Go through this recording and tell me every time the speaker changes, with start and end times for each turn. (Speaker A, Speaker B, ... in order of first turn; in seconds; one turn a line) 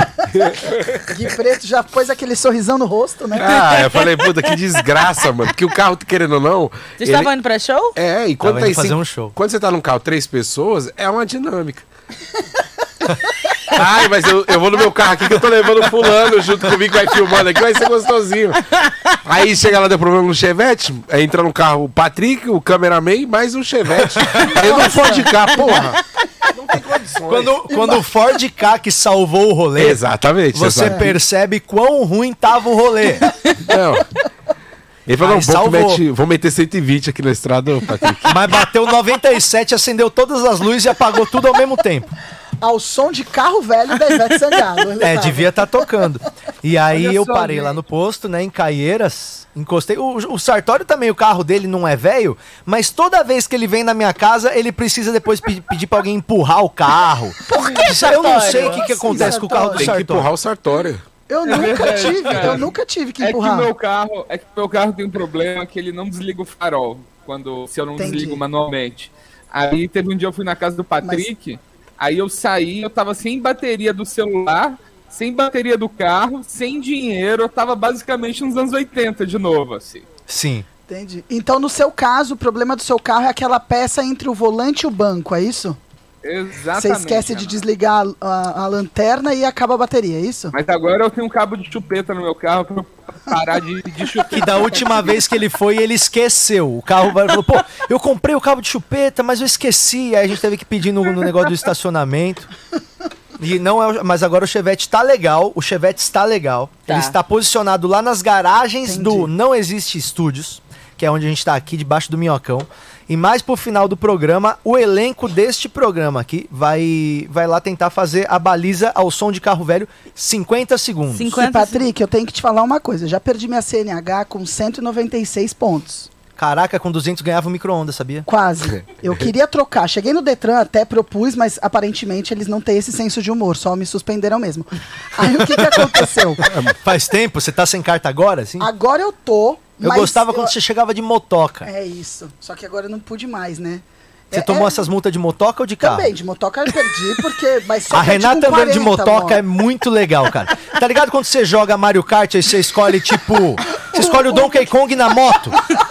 Speaker A: 0.3-1.0
Speaker B: 1.1-3.6
Speaker A: 3.4-7.3
Speaker C: 7.0-8.0
Speaker A: 8.0-11.9
Speaker D: 8.4-9.3
Speaker A: 13.7-18.7
Speaker A: 19.2-26.0
Speaker D: 24.1-24.6
Speaker B: 24.6-25.3
Speaker A: 26.5-27.6
Speaker D: 27.3-33.3
Speaker A: 29.8-31.1
Speaker A: 33.6-34.1
Speaker A: 35.1-38.4
Speaker D: 35.2-36.0
Speaker D: 38.3-42.1
Speaker B: 42.6-45.5
Speaker D: 45.0-60.3
Speaker E: 47.0-47.6
Speaker C: 57.5-58.8
Speaker B: 58.4-59.9
Speaker A: 59.7-61.0
Speaker B: 61.3-63.7
Speaker E: 61.5-80.0
Speaker B: 68.0-68.4
Speaker B: 71.0-71.3
Speaker D: 80.3-80.7
Speaker B: 80.9-85.8
Speaker E: 86.2-87.6
Speaker B: 86.8-90.5
Speaker E: 90.5-95.0
Speaker D: 94.3-102.5
Speaker D: 103.4-121.4
Speaker C: 106.9-107.2
Speaker B: 108.8-109.3
Speaker C: 121.1-121.8
Speaker B: 121.3-126.1
Speaker D: 126.4-128.3
Speaker B: 128.3-136.5
Speaker D: 135.5-138.7
Speaker B: 138.6-140.5
Speaker D: 139.8-141.7
Speaker B: 141.6-144.8
Speaker D: 144.3-146.1
Speaker B: 145.8-149.4
Speaker D: 147.9-155.6